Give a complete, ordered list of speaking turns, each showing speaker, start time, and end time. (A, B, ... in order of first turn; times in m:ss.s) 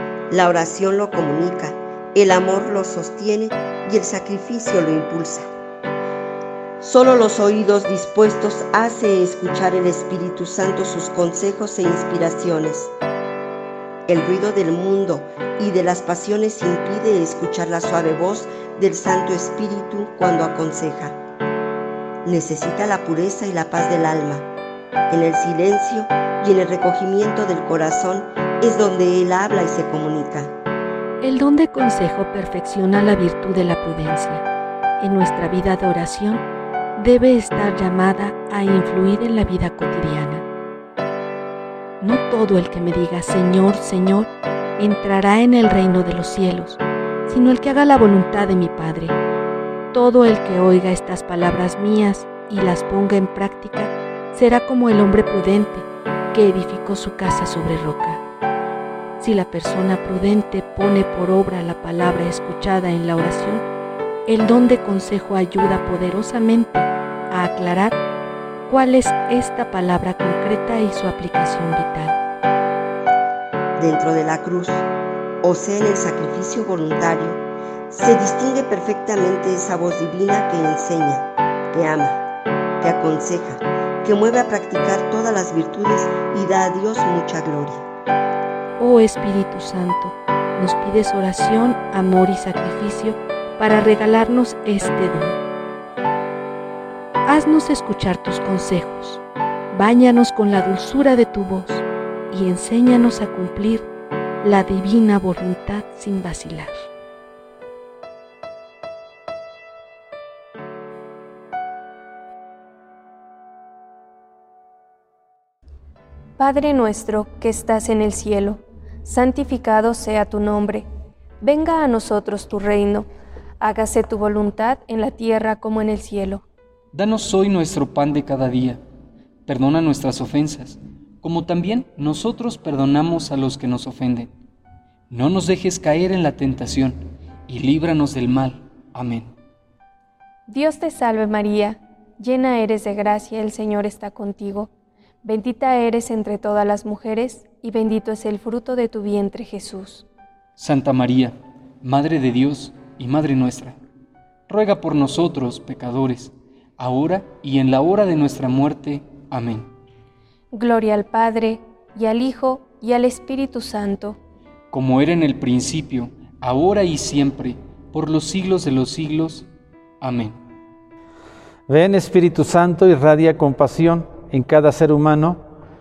0:00.3-0:05.5 A
0:06.8-0:12.9 A
0:14.1-0:21.2 A
0:22.2-0:24.5 A
0:25.1-0:30.6 A
0:31.2-0:34.4 B
0:35.0-0:36.4 B
0:37.0-0:40.4 B
0:42.0-0:49.2 B
0:49.9-0:58.2 B
0:59.2-1:03.6 B
1:04.3-1:08.0 B
1:08.7-1:12.2 B
1:13.8-1:14.8 A
1:15.4-1:22.2 A
1:22.8-1:27.8 A
1:28.8-1:35.4 B
1:37.2-1:43.9 B
1:44.4-1:46.8 B
1:56.4-2:00.9 C
2:01.4-2:03.0 C
2:03.6-2:06.4 C
2:06.9-2:08.8 D
2:09.4-2:14.3 D
2:15.1-2:19.3 D
2:20.5-2:24.7 C
2:25.2-2:30.0 C
2:30.6-2:33.8 D
2:34.5-2:39.7 D
2:40.5-2:44.2 C
2:44.7-2:49.5 D
2:50.0-2:50.4 D
2:51.7-2:55.4 E